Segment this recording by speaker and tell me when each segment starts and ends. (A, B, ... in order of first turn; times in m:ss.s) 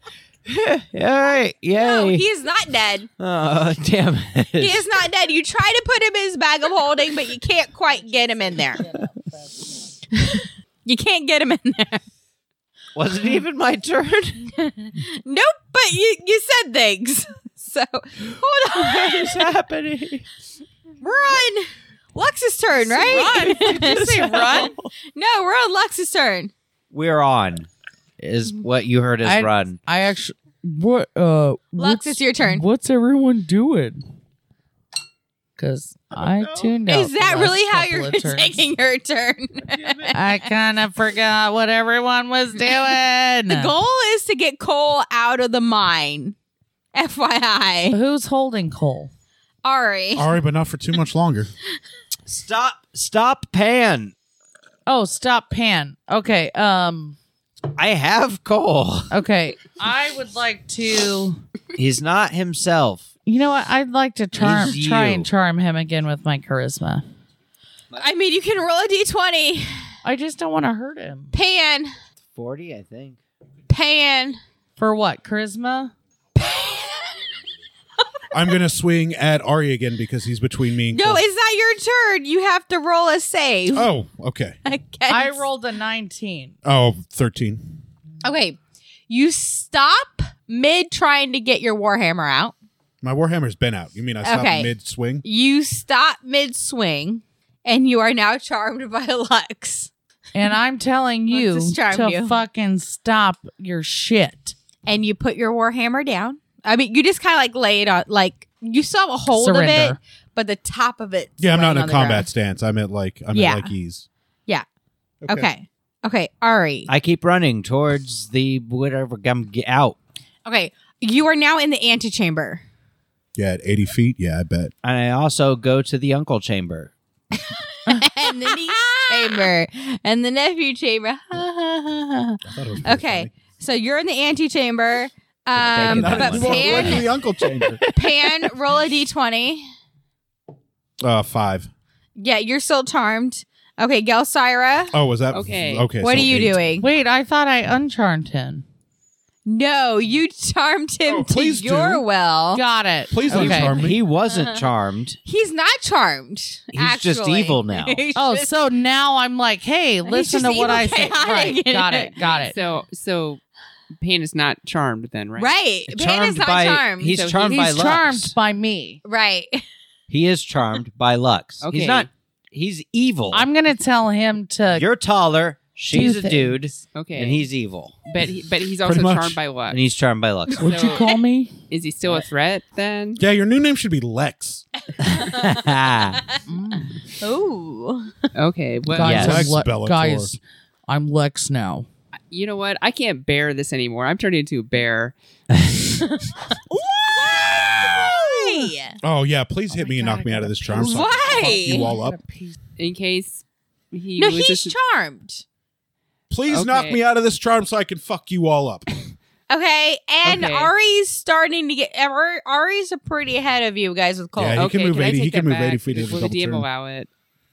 0:00.4-0:02.3 A
0:01.7-0:03.1 B
0:03.2-0:04.9 A
0:04.6-0:08.8 B
0:08.8-0:09.4 C
0:10.1-0:12.0 B
0:12.9-0:14.5 A
0:14.6-0:19.5 B
0:18.7-0:20.3 A
0:21.0-0:26.5 B
0:22.8-0:24.9 A
0:23.2-0:24.7 C
0:26.9-0:27.7 A
0:28.2-0:29.8 A
0:29.2-0:34.1 C
0:31.8-0:32.7 B
0:35.6-0:38.7 C
0:36.2-0:36.8 A
0:36.9-0:40.4 B
0:39.7-0:40.1 A
0:40.1-0:43.8 C
0:43.5-0:46.4 B
0:46.9-0:48.0 B
0:47.9-0:49.1 C
0:49.6-0:50.3 B
0:50.2-0:51.5 D
0:52.3-0:54.2 A
0:54.9-0:57.2 C
0:57.7-0:59.1 A
0:59.1-1:01.4 C
1:01.8-1:03.1 A
1:03.3-1:07.1 C
1:04.4-1:05.3 A
1:08.0-1:09.8 B
1:10.0-1:11.3 C
1:11.3-1:11.9 B
1:12.3-1:13.2 A
1:13.7-1:14.4 B
1:14.8-1:15.9 C
1:16.4-1:17.2 B
1:18.3-1:21.2 D
1:20.9-1:23.9 B
1:23.7-1:24.6 D
1:24.6-1:25.4 B
1:25.1-1:26.6 C
1:26.6-1:27.8 D
1:28.2-1:32.5 B
1:33.0-1:35.2 D
1:34.2-1:34.7 B
1:35.2-1:39.9 B
1:40.3-1:44.6 C
1:41.3-1:42.4 B
1:44.9-1:52.3 B
1:49.3-1:50.0 C
1:51.4-1:54.1 D
1:53.3-1:53.7 B
1:55.2-1:55.5 D
1:55.3-1:56.9 B
1:56.9-2:00.0 A
2:00.5-2:02.6 B
2:03.4-2:04.7 D
2:04.8-2:06.9 A
2:07.3-2:17.1 B
2:12.4-2:13.3 D
2:15.6-2:17.2 A
2:15.8-2:17.8 D
2:17.7-2:18.5 A
2:17.9-2:19.6 B
2:21.0-2:21.7 D
2:22.2-2:25.0 B
2:24.9-2:26.7 D
2:25.3-2:26.0 E
2:26.0-2:26.9 B
2:26.8-2:28.6 C
2:29.5-2:32.6 B
2:31.0-2:32.0 D
2:32.5-2:33.8 C
2:33.1-2:34.0 D
2:33.3-2:35.2 A
2:34.3-2:34.7 B
2:35.2-2:38.6 B
2:36.7-2:38.0 A
2:38.2-2:42.6 C
2:40.0-2:42.2 B
2:42.3-2:43.4 E
2:44.0-2:45.6 E
2:45.4-2:47.2 B
2:45.9-2:48.4 A
2:47.1-2:47.7 E
2:47.5-2:49.0 C
2:49.0-2:49.6 B
2:50.1-2:53.5 A
2:51.6-2:52.1 E
2:53.3-2:54.9 C
2:54.7-2:57.9 A
2:55.9-2:56.8 C
2:56.9-2:57.5 E
2:58.1-2:59.8 E
2:58.8-2:59.4 D
2:59.7-3:00.7 A
3:00.5-3:01.2 E
3:00.6-3:01.6 C
3:01.7-3:03.2 E
3:03.2-3:04.6 D
3:05.0-3:06.2 A
3:06.5-3:07.0 C
3:07.2-3:08.3 B
3:08.4-3:09.4 E
3:08.9-3:11.9 C
3:09.0-3:09.5 A
3:09.0-3:10.4 D
3:12.3-3:15.2 E
3:16.8-3:19.0 B
3:17.5-3:18.0 A
3:18.0-3:18.7 C
3:19.0-3:22.2 D
3:19.7-3:22.6 C
3:20.7-3:21.9 B
3:22.8-3:24.8 E
3:24.2-3:25.4 B
3:26.3-3:28.9 D
3:26.5-3:27.0 E
3:29.5-3:34.7 B
3:30.2-3:30.7 E
3:34.4-3:36.7 D
3:34.6-3:37.1 E